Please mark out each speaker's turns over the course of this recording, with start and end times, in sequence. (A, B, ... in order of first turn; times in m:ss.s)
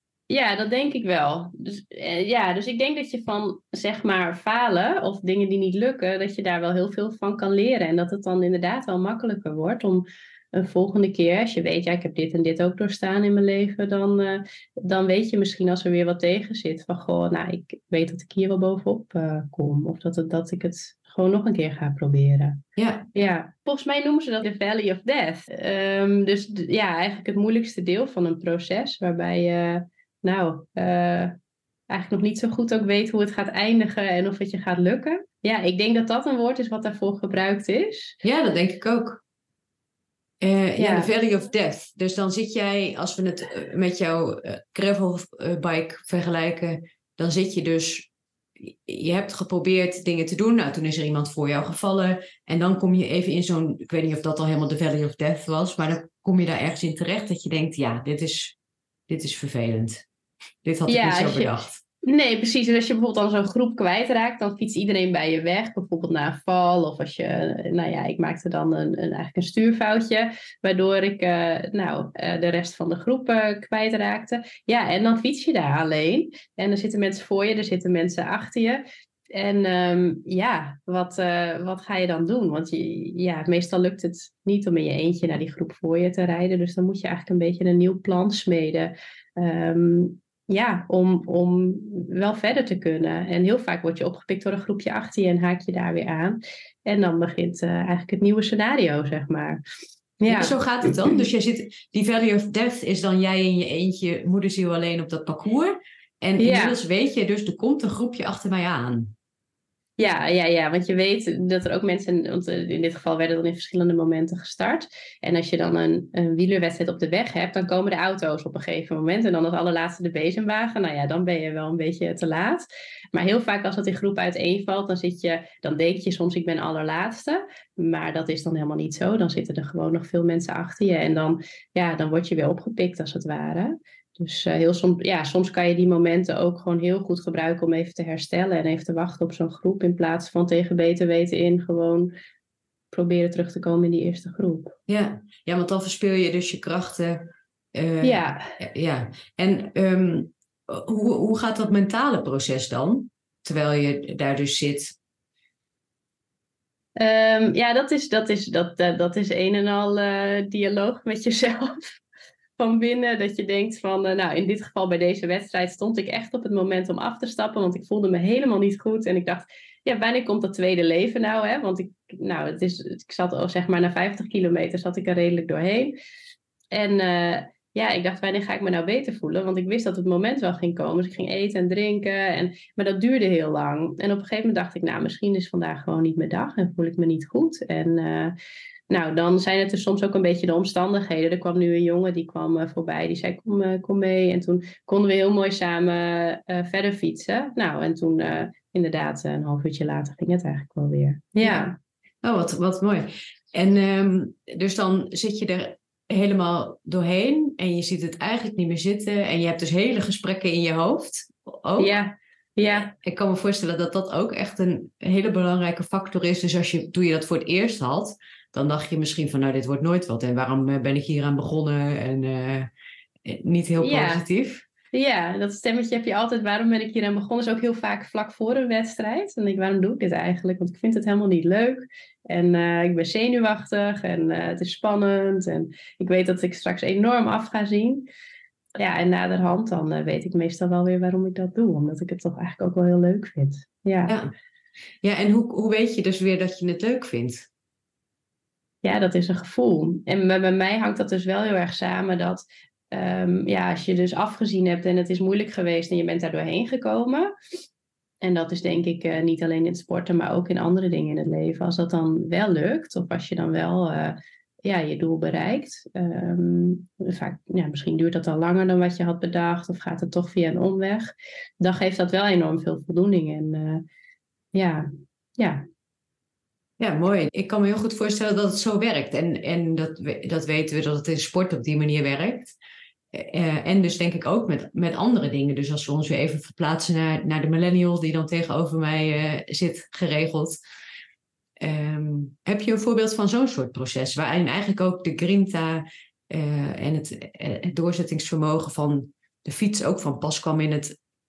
0:00.3-0:22.6 A
0:22.8-0:23.0 B
0:23.1-0:31.3 A
0:31.9-0:38.2 A
0:38.2-0:39.2 B
0:40.4-0:58.6 B
0:40.8-0:41.1 A
0:59.1-1:00.0 B
1:00.6-1:01.8 B
1:00.9-1:01.5 A
1:02.0-1:39.6 A
1:40.2-1:41.1 A
1:40.3-1:49.1 B
1:46.4-1:46.8 A
1:50.0-2:22.1 A
2:22.9-2:24.7 A
2:24.9-2:35.0 B
2:28.0-2:28.5 A
2:37.0-2:41.7 A
2:42.6-2:55.9 A
2:56.7-3:08.3 A
3:08.9-3:21.8 A
3:22.2-3:32.0 B
3:31.8-3:32.9 A
3:32.7-3:42.7 B
3:43.2-3:44.6 B
3:43.8-3:44.2 A
3:44.9-3:58.1 A
3:58.8-4:04.1 A
4:05.0-4:07.5 B
4:08.8-4:17.3 A
4:18.2-4:31.1 A
4:31.6-4:33.8 A
4:34.5-4:35.6 A
4:36.8-4:42.6 B
4:43.1-4:50.6 B
4:51.6-5:01.0 B